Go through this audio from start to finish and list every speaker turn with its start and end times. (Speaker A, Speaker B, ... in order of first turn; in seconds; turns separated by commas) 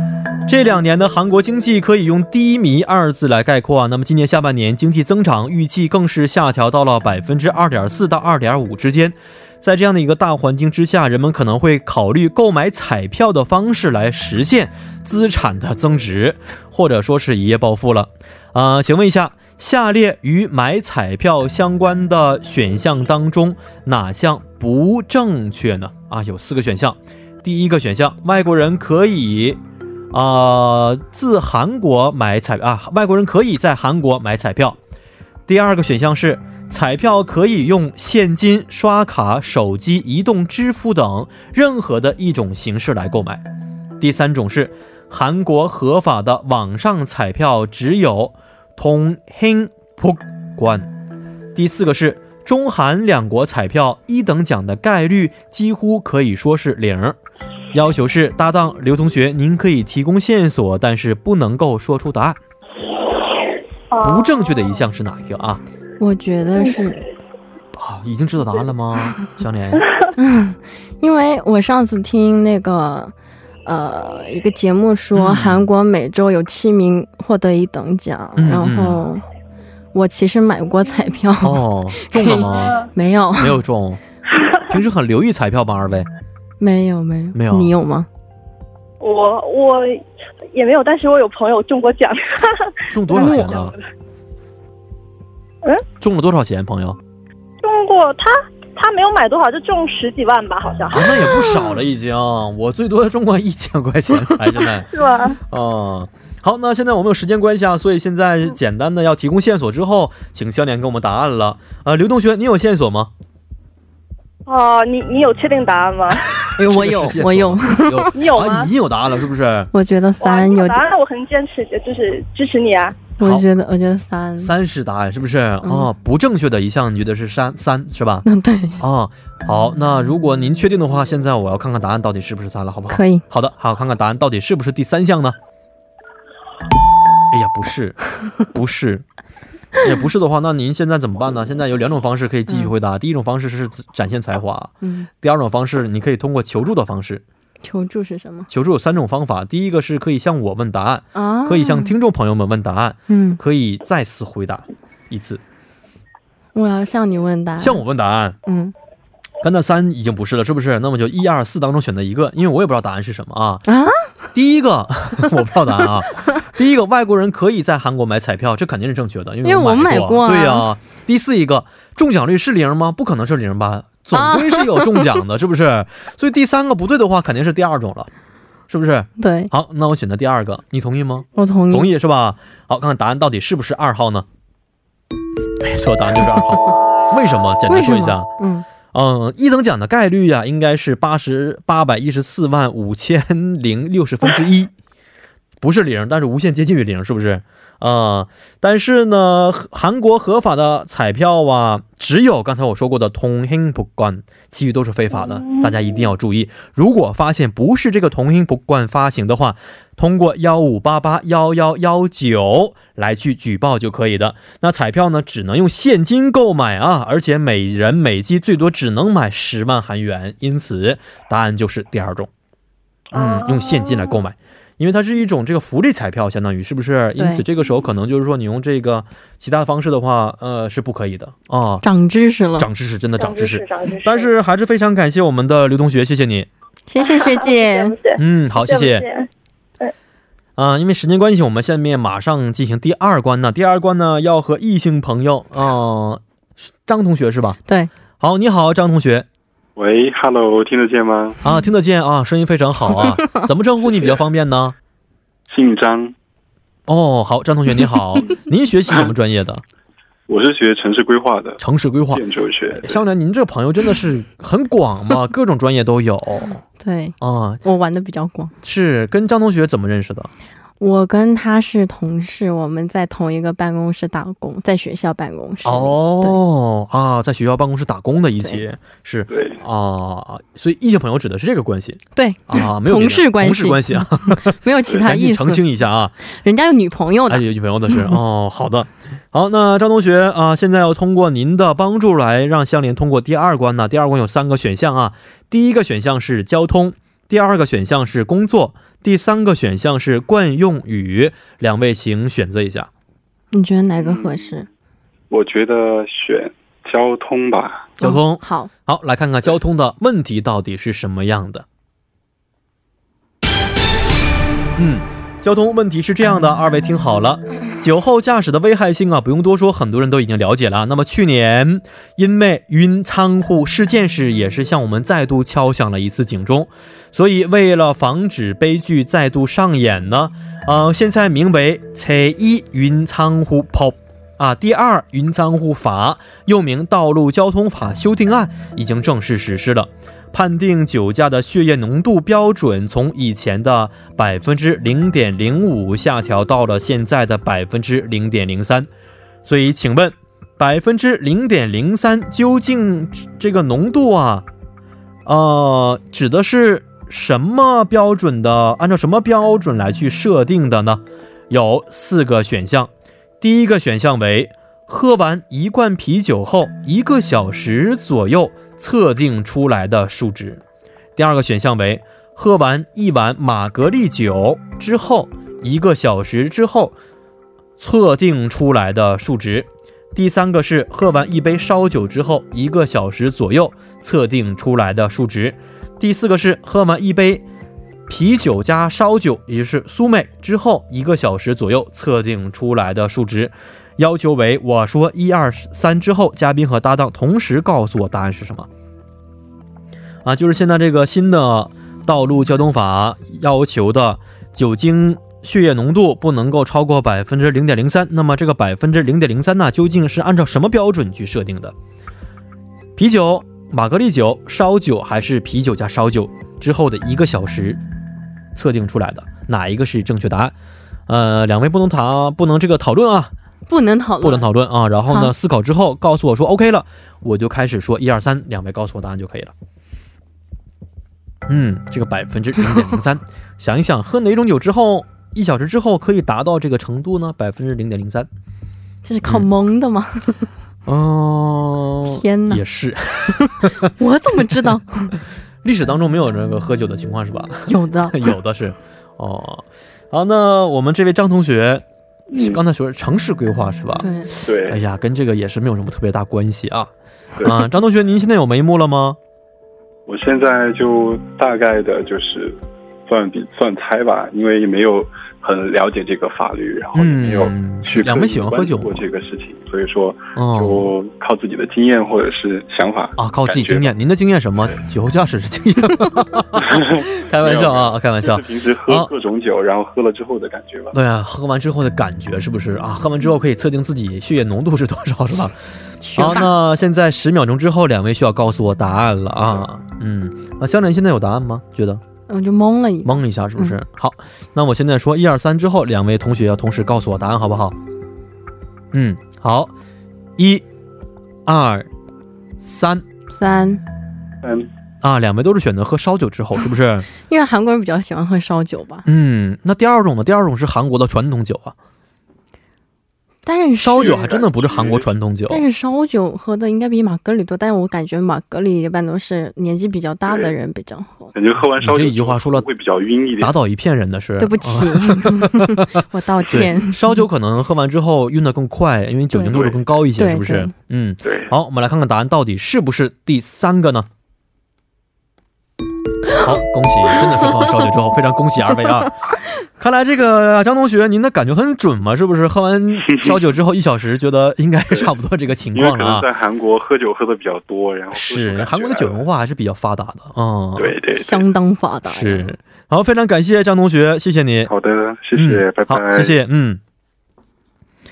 Speaker A: 0.5-29.6, Speaker A: 30.1-34.8, Speaker A: 35.5-43.4, Speaker A: 44.0-50.9, Speaker A: 51.5-57.2, Speaker A: 57.7-62.4, Speaker B: 63.9-64.4, Speaker A: 64.0-65.6, Speaker C: 66.0-67.0, Speaker A: 67.7-69.8, Speaker C: 70.2-73.1, Speaker C: 73.7-79.2, Speaker A: 75.1-75.7, Speaker A: 78.4-79.0, Speaker C: 79.9-83.6, Speaker A: 81.4-82.8, Speaker A: 83.3-84.0, Speaker A: 84.6-86.1, Speaker C: 86.6-88.1, Speaker A: 87.3-87.7, Speaker B: 89.0-90.0, Speaker B: 90.5-93.8, Speaker A: 92.9-93.7, Speaker C: 93.1-93.7, Speaker A: 96.0-97.0, Speaker B: 97.6-101.3, Speaker A: 100.9-113.1, Speaker B: 104.9-105.4, Speaker B: 114.5-116.3, Speaker C: 116.5-118.1, Speaker A: 116.6-119.7, Speaker B: 118.1-118.7, Speaker C: 119.7-120.8, Speaker B: 120.2-123.1, Speaker A: 123.2-123.5, Speaker C: 123.2-124.5, Speaker A: 124.4-128.2, Speaker C: 125.6-125.9, Speaker C: 128.2-128.8, Speaker A: 128.8-135.4, Speaker C: 132.9-133.2, Speaker A: 137.3-139.0, Speaker A: 139.8-147.2, Speaker C: 144.8-145.1, Speaker C: 147.6-148.5, Speaker A: 148.5-155.4, Speaker C: 151.1-151.9, Speaker C: 153.1-153.4, Speaker C: 156.5-157.8, Speaker A: 157.6-158.4, Speaker C: 158.4-158.7, Speaker A: 159.4-163.7, Speaker C: 163.7-164.1, Speaker A: 164.3-178.1, Speaker C: 169.4-170.7, Speaker C: 174.1-175.1, Speaker A: 178.7-184.2, Speaker C: 179.2-179.5, Speaker C: 181.3-181.9, Speaker A: 185.6-188.3, Speaker C: 187.7-188.6, Speaker A: 188.9-194.7, Speaker A: 195.6-222.3, Speaker A: 223.1-231.8, Speaker B: 223.1-224.0, Speaker C: 227.2-227.4, Speaker C: 231.8-232.7, Speaker A: 232.6-236.5, Speaker B: 233.2-234.3, Speaker C: 236.9-237.9, Speaker B: 237.0-239.3, Speaker A: 238.2-239.1, Speaker A: 240.6-246.2, Speaker A: 246.8-247.6, Speaker A: 248.2-249.2, Speaker D: 249.8-251.4, Speaker A: 251.4-254.8, Speaker D: 255.5-256.1, Speaker A: 256.9-259.6, Speaker D: 260.3-263.0, Speaker A: 261.6-266.6, Speaker C: 266.8-268.5, Speaker A: 267.2-267.6, Speaker A: 268.6-270.3, Speaker C: 270.8-276.4, Speaker A: 275.6-286.1, Speaker D: 279.3-279.6, Speaker C: 282.1-285.6, Speaker C: 286.3-287.4, Speaker A: 287.3-302.9, Speaker C: 303.5-304.7, Speaker D: 304.0-304.6, Speaker D: 305.3-307.9, Speaker C: 308.0-308.7, Speaker A: 308.0-311.6, Speaker A: 314.8-348.9, Speaker A: 349.4-354.5, Speaker A: 355.2-370.6, Speaker A: 371.1-376.9, Speaker A: 377.8-387.4, Speaker A: 388.1-398.7, Speaker A: 400.2-411.7, Speaker A: 412.9-417.8, Speaker A: 418.5-420.5, Speaker A: 421.1-423.3, Speaker C: 423.7-424.5, Speaker A: 424.2-429.5, Speaker A: 431.5-438.3, Speaker C: 439.0-440.5, Speaker A: 440.9-443.9, Speaker C: 442.0-442.6, Speaker C: 443.3-445.1, Speaker A: 445.6-456.9, Speaker C: 447.7-448.3, Speaker D: 452.3-452.6, Speaker C: 454.0-454.3, Speaker D: 454.4-454.8, Speaker D: 457.4-457.6, Speaker A: 457.4-459.2, Speaker D: 460.1-473.9, Speaker A: 466.9-469.1, Speaker A: 470.3-470.9, Speaker A: 473.2-479.1, Speaker D: 476.6-480.9, Speaker A: 480.9-485.6, Speaker C: 486.0-486.5, Speaker A: 486.1-492.0, Speaker C: 492.3-493.8, Speaker A: 493.0-497.8, Speaker A: 498.9-499.7, Speaker A: 500.4-500.6, Speaker A: 501.4-501.9, Speaker A: 502.6-503.0, Speaker C: 503.3-503.8, Speaker D: 504.4-504.7, Speaker A: 505.0-507.1, Speaker C: 507.2-509.1, Speaker A: 509.1-511.7, Speaker C: 513.5-514.2, Speaker A: 513.8-515.6, Speaker D: 514.0-515.0, Speaker C: 515.5-521.3, Speaker D: 520.2-520.5, Speaker D: 521.3-523.5, Speaker A: 521.8-522.7, Speaker A: 523.4-525.9, Speaker C: 524.4-527.2, Speaker A: 526.4-534.1, Speaker D: 529.4-529.8, Speaker C: 530.1-530.7, Speaker D: 531.2-531.5, Speaker A: 536.4-539.1, Speaker A: 539.8-546.3, Speaker D: 545.7-549.2, Speaker A: 548.1-551.0, Speaker D: 550.8-551.5, Speaker C: 551.1-552.5, Speaker A: 552.1-554.7, Speaker D: 554.7-556.4, Speaker A: 555.3-556.8